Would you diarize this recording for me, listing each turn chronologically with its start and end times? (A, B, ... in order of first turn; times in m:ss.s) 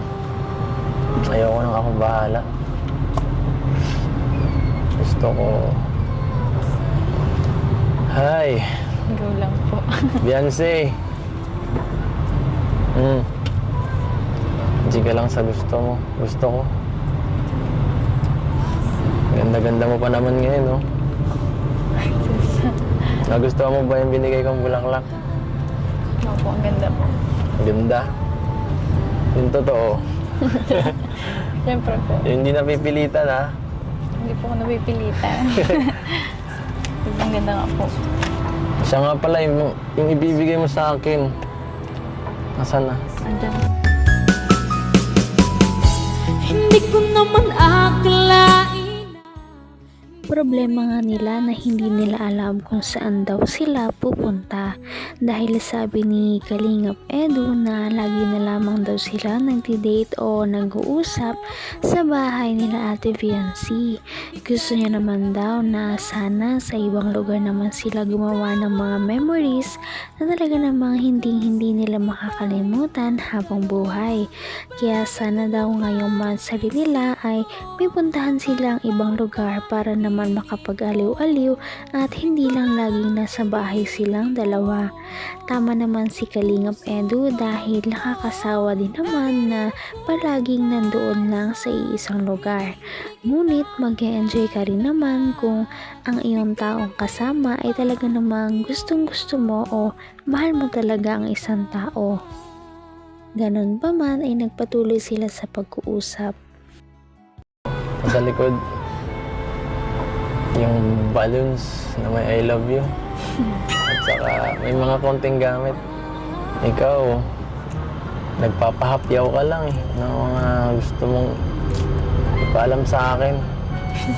0:01.3-0:02.5 A
0:05.0-0:05.8 A
0:08.1-0:08.6 A
0:09.1-0:10.2 B
0:10.2-0:11.0 A
0:13.0-0:13.3 A
0:14.9-0:16.7 A
0:19.3-0:20.8 A
0:22.0-0:23.2 B
0:23.3-0:25.1 A
0:26.2-0:27.2 B
0:27.6-0:28.1 A
0:29.4-0:31.1 A
0:30.4-0:32.3 B
0:32.2-0:33.5 A
0:34.2-0:36.4 B
0:37.0-0:37.9 B
0:38.8-0:41.3 A
0:42.6-0:43.0 A
0:43.3-0:43.6 B
0:46.4-0:49.3 C
0:50.3-0:54.7 D
0:55.2-1:01.4 D
1:01.9-1:03.9 D
1:04.5-1:14.2 D
1:14.8-1:24.8 D
1:25.5-1:32.7 D
1:33.3-1:42.2 D
1:43.4-1:46.3 D
1:48.0-1:48.6 A
1:50.6-1:52.9 A
1:53.8-1:55.8 A
1:56.6-1:57.2 A
1:58.4-2:01.4 A
2:02.4-2:03.4 A